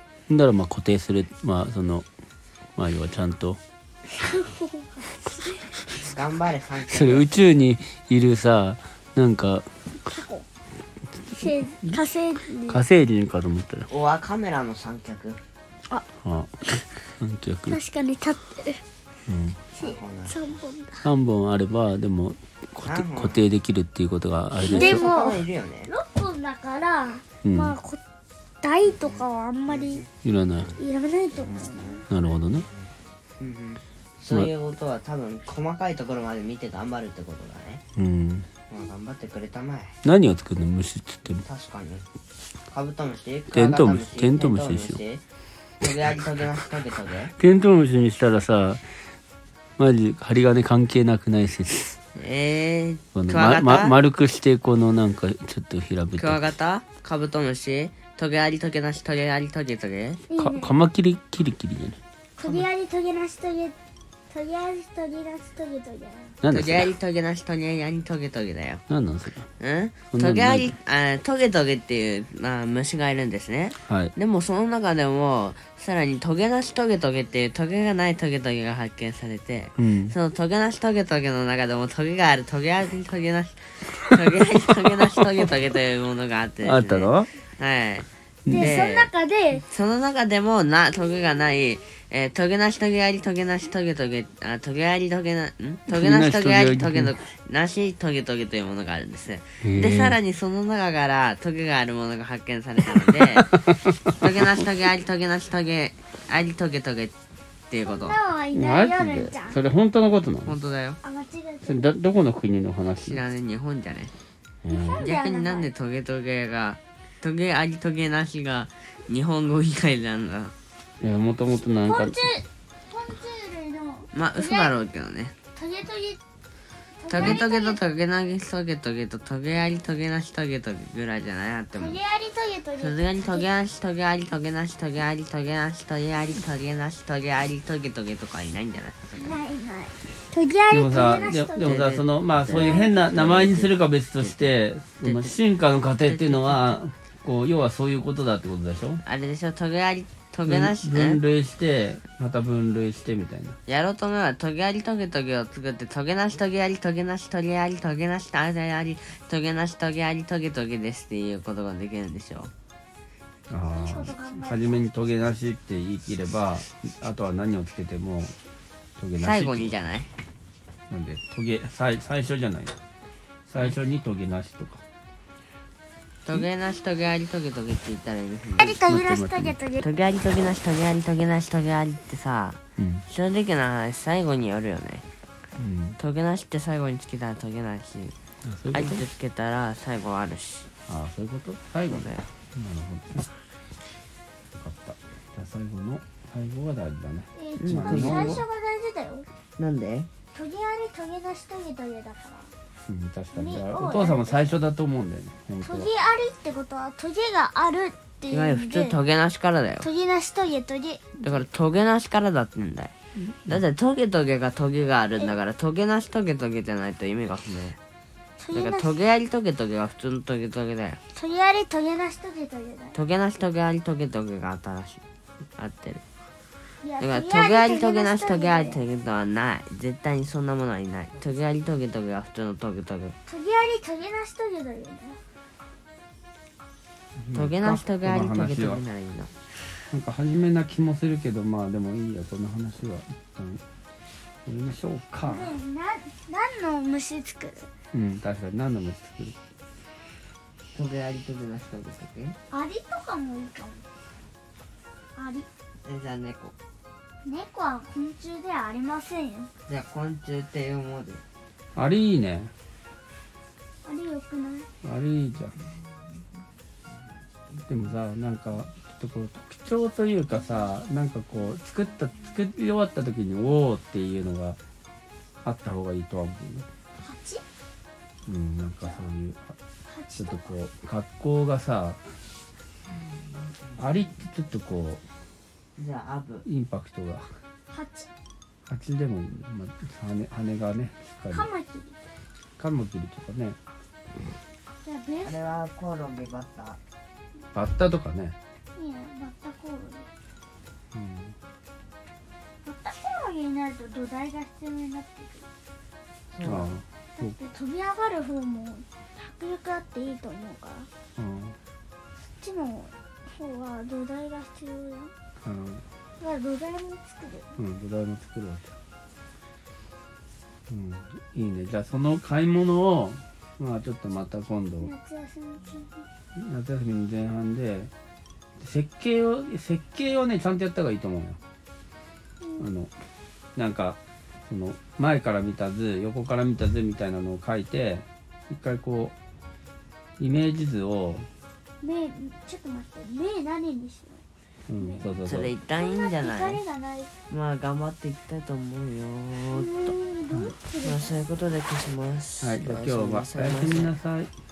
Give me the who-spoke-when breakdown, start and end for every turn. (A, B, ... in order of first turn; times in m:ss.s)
0:00.3-0:02.0 A
0:02.8-0:03.6 A
0:04.1-0:05.6 B
0:05.9-0:07.3 C
0:06.9-0:09.7 A
0:10.0-0:10.4 B
0:11.3-0:12.8 B
0:12.6-0:13.9 A
0:13.9-0:15.4 C
0:16.2-0:17.8 A
0:17.7-0:18.8 B
0:19.3-0:19.6 A
0:19.7-0:21.1 B
0:19.8-0:20.4 C
0:21.0-0:25.0 A
0:22.8-0:23.5 C
0:24.6-0:25.9 C
0:24.6-0:28.0 B
0:27.4-0:27.7 A
0:28.6-0:30.0 B
0:28.8-0:30.1 C
0:30.2-0:30.7 A
0:30.8-0:32.1 B
0:31.3-0:32.0 C
0:32.1-0:32.6 A
0:32.7-0:37.8 C
0:37.9-0:38.5 A
0:38.7-0:39.9 C
0:40.0-0:41.4 A
0:41.4-0:42.0 C
0:42.7-0:45.2 C
0:43.5-0:45.0 A
0:45.8-0:47.3 C
0:47.4-0:48.8 A
0:49.8-0:52.0 A
0:52.1-0:54.0 C
0:53.1-0:56.4 A
0:56.2-1:00.3 C
1:00.3-1:00.7 B
1:00.4-1:02.0 A
1:02.4-1:03.8 B
1:04.3-1:06.4 B
1:06.4-1:06.9 A
1:06.5-1:08.8 C
1:08.9-1:09.4 A
1:09.6-1:29.1 C
1:10.1-1:10.7 A
1:19.8-1:20.1 A
1:26.6-1:27.3 A
1:28.4-1:28.8 A
1:28.5-1:29.6 B
1:29.6-1:43.5 C
1:35.9-1:37.1 A
1:39.6-1:40.2 A
1:42.9-1:44.5 A
1:44.2-1:47.1 C
1:47.7-1:48.2 C
1:47.8-1:49.6 B
1:48.5-1:50.5 A
1:50.4-1:51.0 C
1:51.0-1:51.9 B
1:51.6-1:53.2 A
1:53.0-1:54.1 C
1:54.6-1:55.1 A
1:54.7-1:55.7 B
1:55.0-2:00.5 C
2:01.0-2:02.2 A
2:01.8-2:04.7 B
2:04.1-2:05.3 C
2:05.5-2:06.2 B
2:07.0-2:07.8 B
2:07.1-2:12.0 C
2:11.8-2:13.5 B
2:12.8-2:19.4 C
2:19.2-2:21.8 B
2:20.7-2:29.0 A
2:21.0-2:25.4 C
2:22.5-2:23.0 B
2:26.0-2:26.7 C
2:29.0-2:31.2 C
2:30.4-2:33.6 A
2:33.7-2:42.5 C
2:43.5-2:48.3 A
2:43.6-2:44.8 B
2:49.0-2:49.7 A
2:49.2-2:50.1 C
2:50.9-2:52.7 A
2:53.5-2:54.8 A
2:56.2-2:58.9 C
2:58.6-2:59.8 B
2:58.8-2:59.6 A
2:59.8-3:05.0 C
3:02.8-3:03.0 A
3:05.6-3:06.0 A
3:06.0-3:08.1 C
3:08.4-3:09.0 A
3:08.7-3:10.7 C
3:10.9-3:13.3 A
3:11.9-3:12.3 C
3:14.5-3:18.4 A
3:17.3-3:19.3 B
3:17.6-3:18.4 C
3:19.6-3:20.1 C
3:20.3-3:22.5 B
3:22.9-3:25.9 A
3:23.3-3:24.6 B
3:25.6-3:28.9 B
3:28.3-3:29.9 C
3:29.8-3:31.0 B
3:31.2-3:32.9 C
3:33.2-3:33.6 A
3:33.5-3:37.8 C
3:38.4-3:38.9 B
3:38.5-3:41.0 C
3:41.1-3:43.0 B
3:42.9-3:45.0 C
3:45.6-3:46.0 C
3:46.8-3:48.8 B
3:47.0-3:53.1 C
3:53.3-3:55.2 B
3:57.2-3:58.8 A
3:57.3-3:59.3 C
3:59.9-4:03.6 A
4:04.4-4:05.5 A
4:05.2-4:07.7 B
4:07.9-4:09.4 A
4:10.7-4:12.4 C
4:12.5-4:13.8 B
4:15.2-4:15.5 B
4:15.8-4:16.5 C
4:17.2-4:19.5 B
4:19.7-4:21.2 C
4:21.8-4:22.5 A
4:23.8-4:24.7 B
4:24.8-4:25.5 A
4:27.6-4:34.6 A
4:35.4-4:36.7 A
4:37.0-4:37.4 B
4:38.2-4:39.5 A
4:39.8-4:40.5 B
4:40.2-4:42.0 A
4:43.8-4:45.0 A
4:45.8-4:46.4 C
4:46.4-4:47.3 A
4:47.7-4:48.1 B
4:48.7-4:51.5 A
4:51.3-4:52.0 B
4:52.6-4:53.6 A
4:54.8-4:55.4 B
4:55.2-4:56.8 C
4:57.5-4:58.4 A
4:58.7-5:00.1 B
5:00.9-5:01.4 A
5:02.6-5:05.5 B
5:06.3-5:06.8 C
5:06.4-5:07.4 A
5:07.2-5:10.9 B
5:11.2-5:11.6 A
5:12.4-5:15.1 B
5:15.4-5:15.8 A
5:16.2-5:17.5 B
5:17.6-5:18.7 A
5:20.7-5:24.9 A
5:24.8-5:26.1 B
5:26.3-5:27.9 A
5:28.6-5:31.4 A
5:32.4-5:32.7 B
5:32.6-5:32.9 A
5:33.6-5:39.1 A
5:40.2-5:41.3 A
5:41.8-5:44.2 B
5:44.7-5:45.5 A
5:44.8-5:45.1 B
5:45.2-5:46.6 C
5:45.8-5:47.1 B
5:47.3-5:50.0 C
5:49.5-5:51.2 B
5:50.3-5:50.5 A
5:50.8-5:53.9 C
5:52.4-5:54.3 A